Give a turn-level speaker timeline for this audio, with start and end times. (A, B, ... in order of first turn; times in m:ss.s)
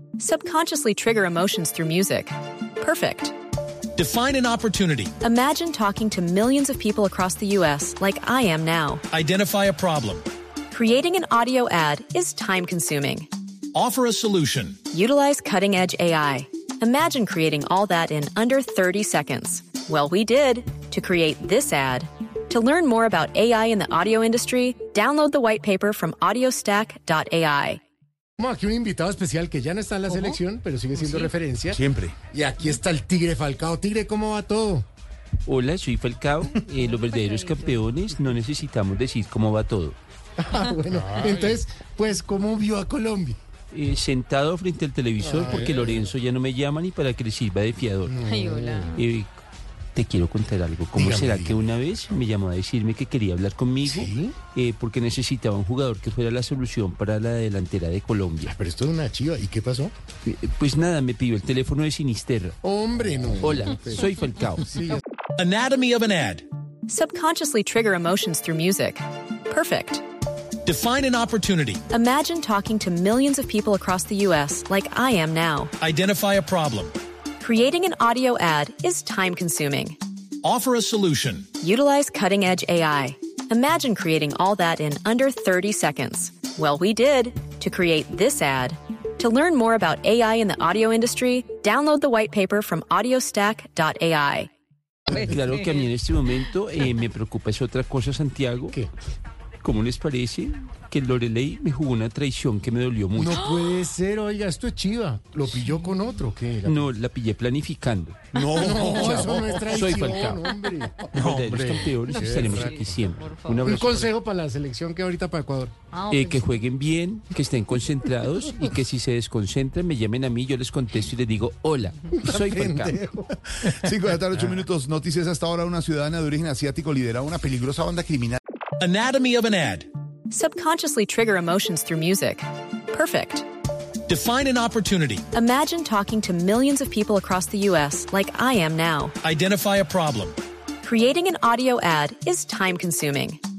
0:00.2-0:03.3 A
0:03.9-0:05.1 B
0:05.2-0:09.0 A
0:09.1-0:10.2 B
0:10.7-0:13.3 A
0:13.7-0:14.8 B
0:14.9-0:27.8 A
0:28.4-0:34.8 C
0:31.7-0:32.2 D
0:35.4-0:40.0 E
0:37.0-0:37.7 F
0:40.4-0:43.4 C
0:40.9-0:41.5 D
0:43.7-0:48.2 E
0:45.2-0:46.1 C
0:48.0-0:49.0 C
0:48.2-0:49.0 F
0:48.9-0:49.3 E
0:49.9-0:58.5 E
0:50.9-0:51.6 C
0:53.8-0:54.3 C
0:58.4-0:59.9 C
1:00.2-1:02.6 E
1:02.6-1:05.0 C
1:03.4-1:04.7 E
1:05.4-1:06.4 B
1:06.9-1:10.0 A
1:10.6-1:11.8 B
1:11.9-1:15.7 A
1:15.8-1:16.9 B
1:17.4-1:20.0 A
1:20.4-1:21.5 B
1:21.6-1:34.5 A
1:35.1-1:38.8 E
1:39.6-1:43.6 E
1:43.1-1:46.9 C
1:46.6-1:50.5 E
1:48.3-1:49.7 D
1:48.5-1:52.8 C
1:51.1-1:54.1 E
1:52.1-1:52.7 F
1:53.6-1:55.7 C
1:55.9-1:56.4 F
1:56.1-2:03.0 E
2:02.1-2:03.7 C
2:03.6-2:08.4 D
2:08.8-2:09.9 B
2:10.3-2:13.4 A
2:14.0-2:15.2 B
2:15.3-2:19.1 A
2:19.2-2:20.4 B
2:20.8-2:23.4 A